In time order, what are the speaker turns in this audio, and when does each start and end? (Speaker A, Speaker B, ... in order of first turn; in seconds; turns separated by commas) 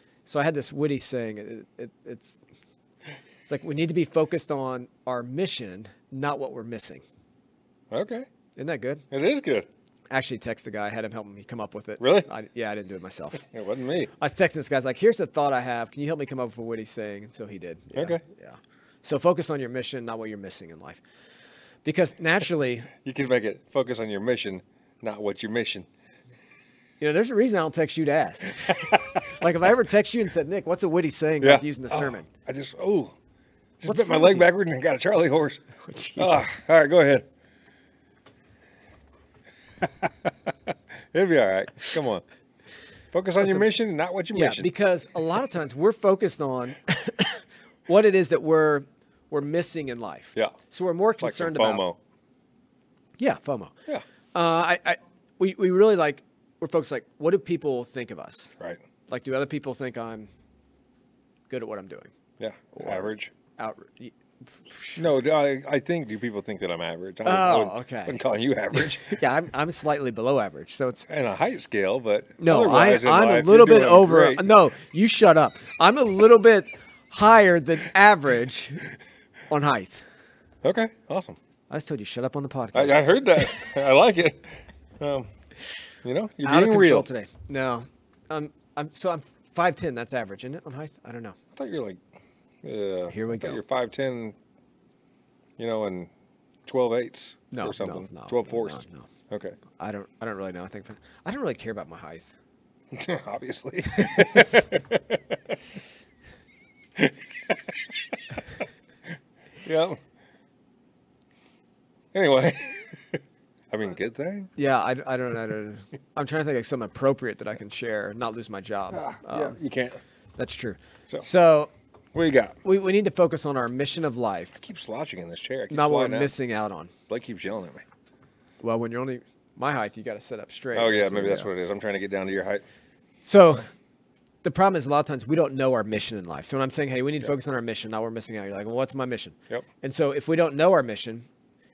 Speaker A: 0.3-2.4, Speaker A: 3.5-7.0, Speaker B: 7.9-8.2, Speaker A: 8.6-9.0, Speaker B: 9.1-9.7, Speaker A: 10.1-13.4, Speaker B: 12.0-12.3, Speaker B: 13.4-14.1, Speaker A: 14.2-21.0, Speaker B: 17.9-18.2, Speaker A: 21.8-22.9, Speaker B: 22.9-25.9, Speaker A: 27.0-32.3, Speaker B: 28.6-29.3, Speaker B: 31.4-33.1, Speaker B: 33.8-35.6, Speaker A: 33.9-34.5, Speaker A: 35.8-36.5, Speaker B: 36.2-37.2, Speaker B: 39.8-42.2, Speaker B: 43.1-44.7, Speaker A: 43.4-43.7, Speaker A: 44.3-51.8, Speaker B: 51.2-52.0, Speaker A: 53.2-53.7, Speaker A: 54.3-58.5, Speaker A: 59.1-60.3, Speaker A: 61.5-62.1, Speaker B: 62.4-63.3, Speaker A: 62.7-65.0, Speaker B: 65.0-69.2, Speaker A: 67.2-68.2, Speaker A: 68.7-71.0, Speaker B: 71.1-74.5, Speaker A: 72.4-78.9, Speaker A: 79.5-80.0, Speaker B: 80.6-81.4, Speaker A: 81.7-83.6, Speaker B: 82.7-85.3, Speaker B: 86.0-87.1, Speaker A: 86.4-91.4, Speaker B: 91.5-92.0, Speaker B: 92.6-94.3, Speaker A: 93.1-93.6, Speaker B: 95.6-96.1, Speaker B: 96.7-99.6, Speaker A: 97.5-99.1, Speaker A: 99.7-102.3, Speaker B: 102.9-105.6, Speaker A: 104.0-104.7, Speaker B: 107.0-108.3, Speaker B: 109.6-110.0, Speaker B: 112.1-114.5, Speaker A: 114.6-119.6, Speaker B: 118.9-120.0, Speaker A: 120.4-121.7, Speaker B: 122.1-122.6, Speaker A: 122.6-124.6, Speaker B: 124.6-126.3, Speaker A: 125.7-126.9, Speaker B: 127.1-127.8, Speaker A: 128.6-131.5, Speaker B: 130.7-132.6, Speaker A: 133.2-133.7, Speaker A: 134.4-141.3